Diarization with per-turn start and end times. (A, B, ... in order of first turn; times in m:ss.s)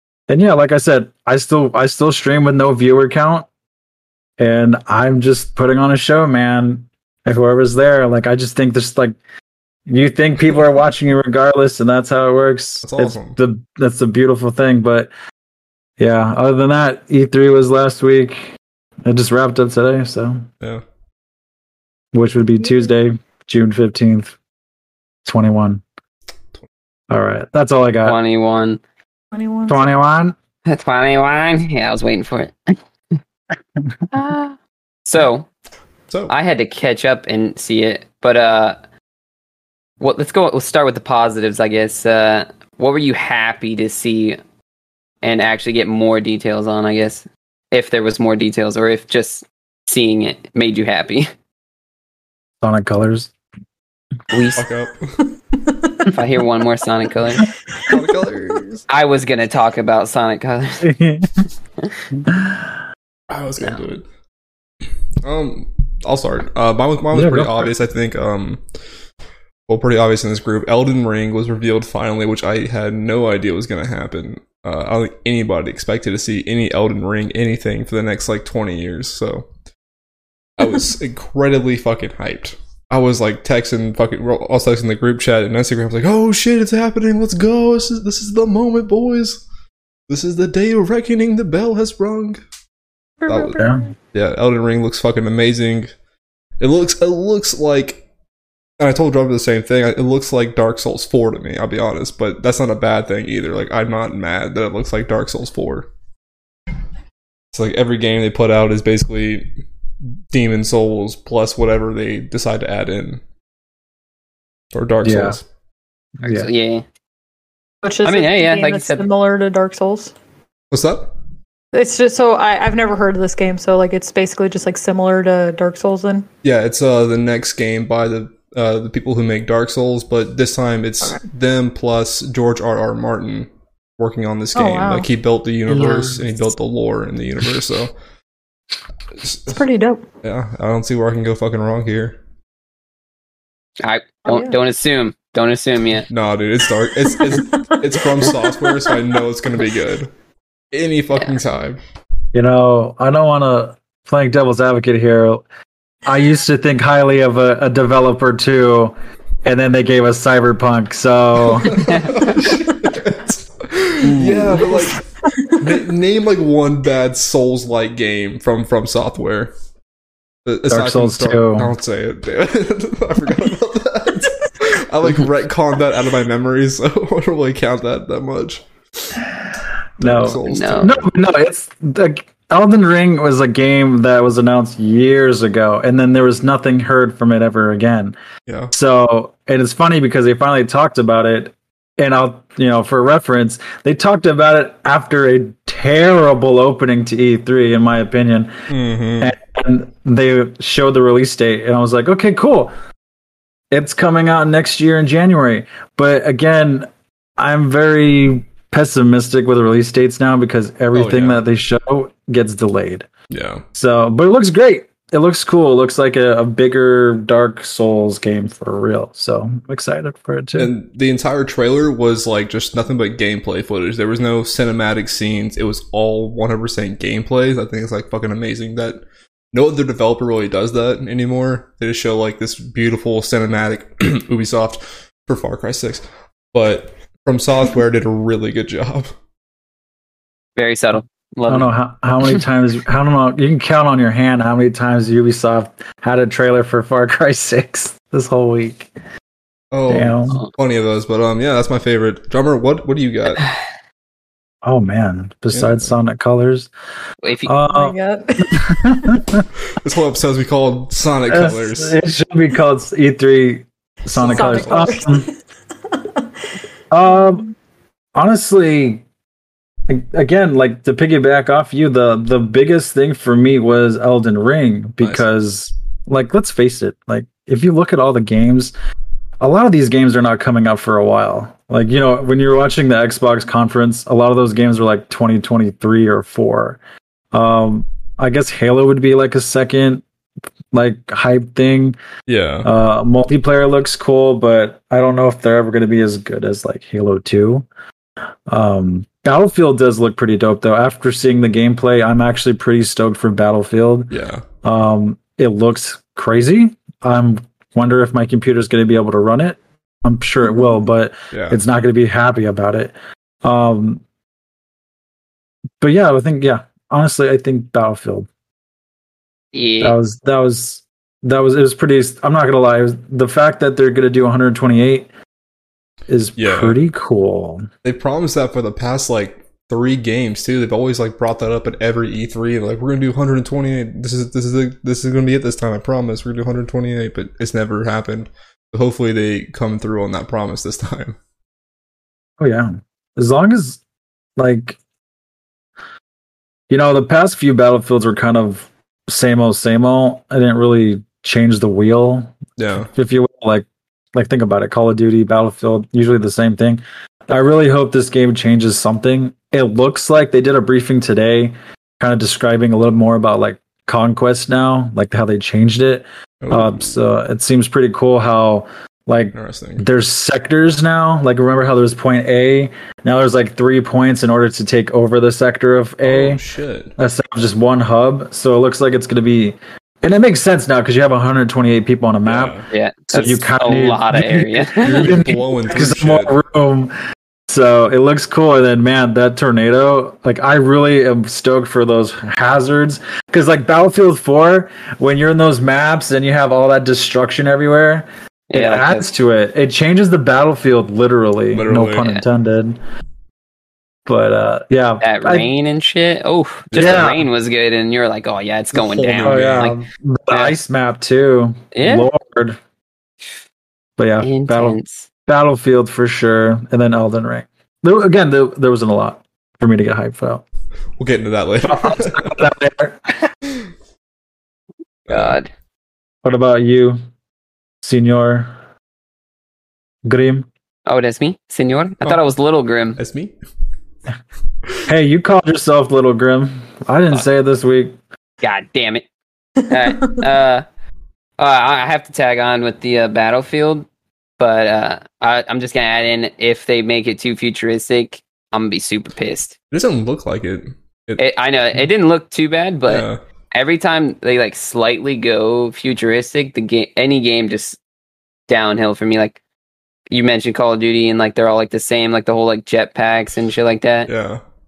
0:00.3-0:03.5 A
0:04.4-0:09.2 A
0:09.9-0:15.1 A
0:12.8-0:13.4 B
0:16.0-0:18.5 A
0:19.0-0:20.5 A
0:22.1-0:24.4 A
0:25.2-0:25.8 A
0:27.1-0:28.2 A
0:28.0-0:28.8 C
0:29.3-0:29.8 D
0:29.7-0:30.4 A
0:30.7-0:32.8 C
0:34.1-0:35.5 C
0:36.3-0:38.8 C
0:40.0-0:44.4 C
0:45.2-0:51.3 C
0:52.6-0:53.3 A
0:54.3-0:54.6 C
0:54.6-0:55.2 B
0:55.6-0:56.1 D
0:56.1-0:57.4 C
0:57.4-0:58.0 D
0:57.8-0:58.8 B
0:58.9-1:00.9 C
1:00.8-1:01.4 A
1:02.2-1:02.8 A
1:03.3-1:04.0 B
1:05.2-1:08.6 B
1:07.1-1:07.7 A
1:09.7-1:19.5 B
1:20.6-1:29.4 B
1:30.1-1:32.4 B
1:33.2-1:33.9 D
1:33.3-1:35.9 B
1:36.6-1:38.0 B
1:38.8-1:45.9 B
1:47.5-1:49.5 B
1:50.3-1:53.2 B
1:54.7-1:55.4 B
1:55.0-1:55.4 A
1:56.2-1:56.5 A
1:56.2-1:56.8 C
1:57.8-2:00.1 D
1:58.0-1:59.0 C
2:00.7-2:01.1 B
2:01.7-2:06.3 D
2:06.4-2:17.9 B
2:14.6-2:15.1 D
2:15.7-2:16.2 C
2:19.2-2:19.6 B
2:19.5-2:20.0 D
2:20.2-2:22.2 B
2:23.8-2:26.1 C
2:24.3-2:24.6 D
2:26.1-2:30.1 B
2:27.1-2:29.2 D
2:30.7-2:31.8 B
2:32.3-2:35.4 A
2:36.0-2:41.8 A
2:41.4-2:49.5 B
2:41.8-2:42.3 C
2:42.4-2:42.9 D
2:44.2-2:44.6 A
2:44.6-2:45.8 D
2:50.4-2:59.2 B
2:50.7-2:51.7 A
3:00.0-3:01.1 B
3:00.0-3:08.2 A
3:00.5-3:01.0 C
3:08.5-3:08.7 B
3:08.7-3:18.5 A
3:18.7-3:19.3 B
3:19.2-3:22.7 A
3:23.7-3:33.1 A
3:30.9-3:31.4 B
3:33.3-3:33.6 B
3:33.7-3:40.7 A
3:40.6-3:59.1 B
4:00.6-4:01.7 C
4:01.5-4:08.9 A
4:09.7-4:13.5 B
4:09.9-4:10.4 A
4:14.6-4:16.7 A
4:15.5-4:15.9 B
4:17.2-4:17.5 C
4:17.5-4:19.5 A
4:17.7-4:19.2 D
4:19.7-4:22.0 B
4:21.3-4:25.3 A
4:24.1-4:25.3 D
4:24.2-4:24.6 B
4:25.9-4:26.2 D
4:26.9-4:27.4 A
4:27.0-4:27.5 D
4:28.2-4:29.0 A
4:29.9-4:38.7 A
4:39.4-4:46.8 A
4:47.3-4:50.0 A
4:50.7-4:52.0 A
4:52.3-4:52.7 B
4:52.6-4:57.7 A
4:58.5-5:14.0 A
5:04.1-5:04.4 B
5:11.3-5:11.6 B
5:15.8-5:18.3 A
5:19.5-5:20.0 C
5:19.8-5:25.1 A
5:26.1-5:27.7 A
5:26.4-5:26.8 B
5:27.8-5:41.2 B
5:42.4-5:43.8 A
5:44.4-5:44.8 A
5:46.7-5:52.4 A
5:52.6-5:52.9 B
5:52.9-6:16.4 A
6:06.4-6:07.0 B
6:09.4-6:09.9 B
6:16.0-6:16.9 B
6:17.0-6:22.6 A
6:22.2-6:22.7 B
6:22.7-6:25.2 C
6:23.1-6:26.9 A
6:24.8-6:26.4 B
6:27.5-6:42.8 A
6:38.5-6:39.0 C
6:41.5-6:42.2 B
6:44.1-6:45.5 A
6:45.0-6:49.8 C
6:46.7-6:47.1 B
6:46.8-6:47.2 A
6:48.7-6:49.7 B
6:49.2-6:52.6 A
6:51.7-6:52.1 C
6:54.0-7:00.4 A
6:54.2-6:55.1 C
7:01.0-7:02.4 B
7:01.6-7:03.3 A
7:05.1-7:05.4 B
7:05.1-7:05.5 C
7:06.2-7:07.0 A
7:07.8-7:08.5 A
7:10.1-7:10.5 A
7:10.9-7:13.0 C
7:13.0-7:13.4 B
7:14.9-7:18.0 A
7:18.4-7:19.0 C
7:19.7-7:20.6 C
7:19.8-7:20.2 D
7:21.4-7:23.9 C
7:24.4-7:29.6 C
7:29.7-7:31.2 B
7:31.2-7:37.8 C
7:32.9-7:33.2 B
7:38.5-7:39.4 C
7:40.1-7:44.1 C
7:44.1-7:44.4 B